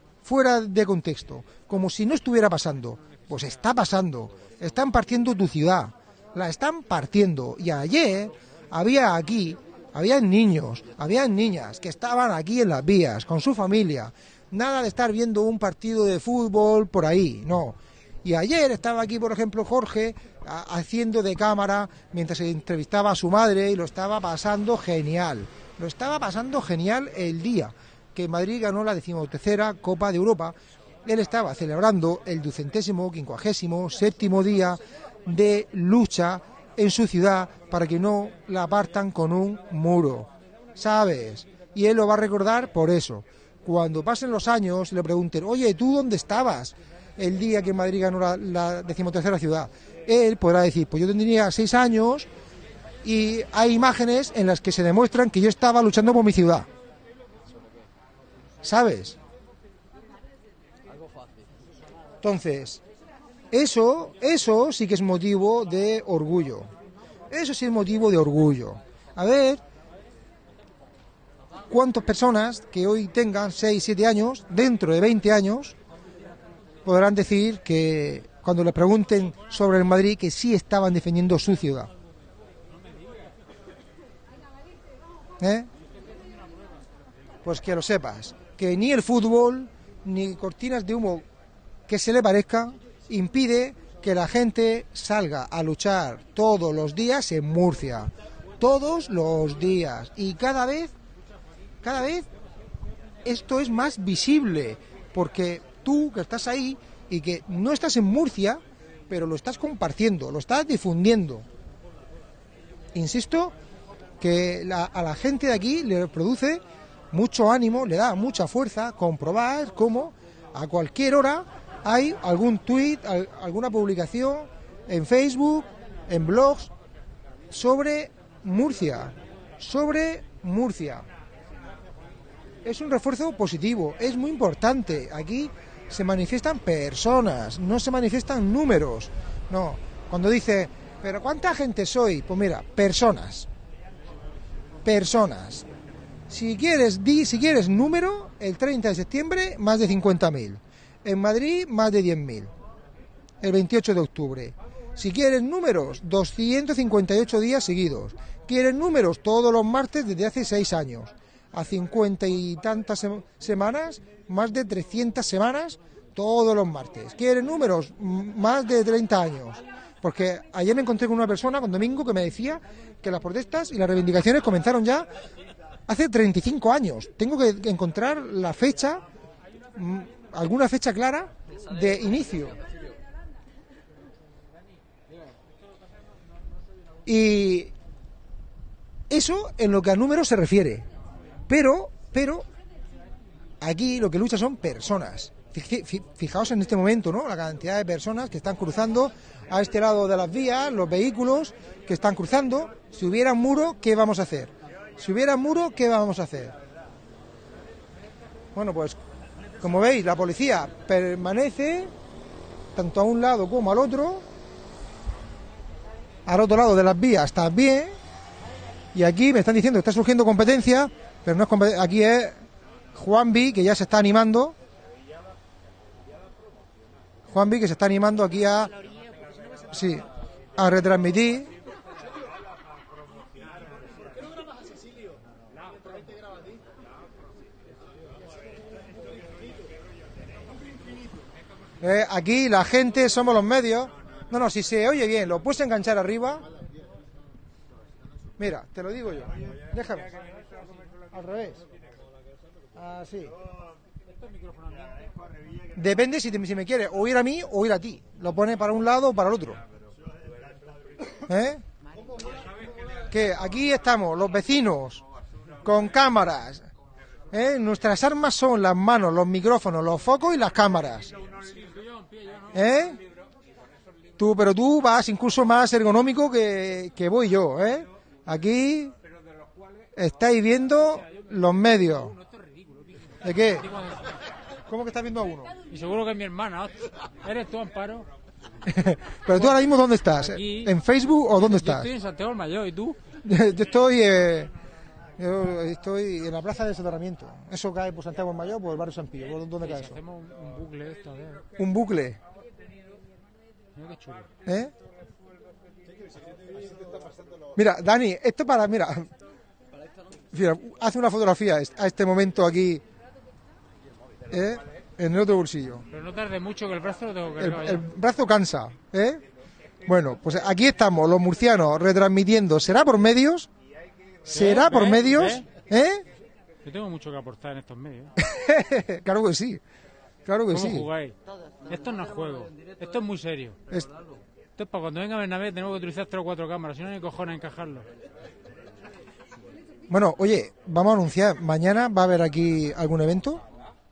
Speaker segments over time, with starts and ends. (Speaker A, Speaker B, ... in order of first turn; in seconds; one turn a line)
Speaker A: 0.2-52.3
Speaker A: 53.0-56.7
Speaker A: 58.6-59.2
Speaker A: 62.2-62.8
Speaker A: 63.5-66.7
Speaker A: 67.3-69.6
Speaker A: 71.7-75.8
Speaker A: 76.8-81.9
Speaker A: 85.4-85.7
Speaker A: 87.4-91.2
Speaker A: 91.9-100.9
Speaker A: 101.8-102.3
Speaker A: 103.2-111.5
Speaker A: 112.9-113.5
Speaker A: 114.2-126.7
Speaker A: 127.5-131.1
Speaker A: 132.6-143.5
Speaker A: 144.8-145.7
Speaker A: 146.3-152.5
Speaker A: 153.4-175.1
Speaker A: 175.9-179.0
Speaker A: 179.8-182.6
Speaker A: 187.1-187.7
Speaker A: 189.1-190.9
Speaker A: 191.5-192.4
Speaker A: 193.6-206.6
Speaker A: 208.5-209.0
Speaker A: 209.6-211.9
Speaker A: 212.7-214.2
Speaker A: 216.2-217.9
Speaker A: 218.9-222.4
Speaker A: 222.9-224.5
Speaker A: 227.3-228.7
Speaker A: 229.7-231.5
Speaker A: 241.8-246.5
Speaker A: 248.4-250.1
Speaker A: 251.1-251.6
Speaker A: 252.7-253.3
Speaker A: 255.7-259.6
Speaker A: 261.1-261.6
Speaker A: 263.1-265.0
Speaker A: 265.6-266.7
Speaker A: 267.3-271.2
Speaker B: 271.6-272.4
Speaker A: 272.5-273.0
Speaker A: 274.2-278.9
Speaker A: 279.9-282.1
Speaker A: 283.2-283.7
Speaker B: 283.7-284.0
Speaker A: 284.6-285.5
Speaker B: 285.7-288.1
Speaker A: 288.6-291.9
Speaker B: 289.3-289.6
Speaker B: 290.1-290.7
Speaker B: 291.4-293.0
Speaker A: 293.2-294.5
Speaker A: 295.2-300.0
Speaker B: 299.6-301.4
Speaker A: 301.6-302.2
Speaker B: 303.8-304.3
Speaker A: 304.4-304.7
Speaker A: 307.5-309.1
Speaker A: 310.3-312.8
Speaker A: 314.3-315.9
Speaker B: 315.9-317.8
Speaker A: 317.4-319.2
Speaker A: 319.9-323.5
Speaker A: 324.2-326.1
Speaker B: 324.3-325.5
Speaker B: 326.6-328.1
Speaker A: 328.2-329.6
Speaker A: 330.2-330.9
Speaker B: 330.5-333.6
Speaker B: 334.6-337.9
Speaker A: 339.9-343.4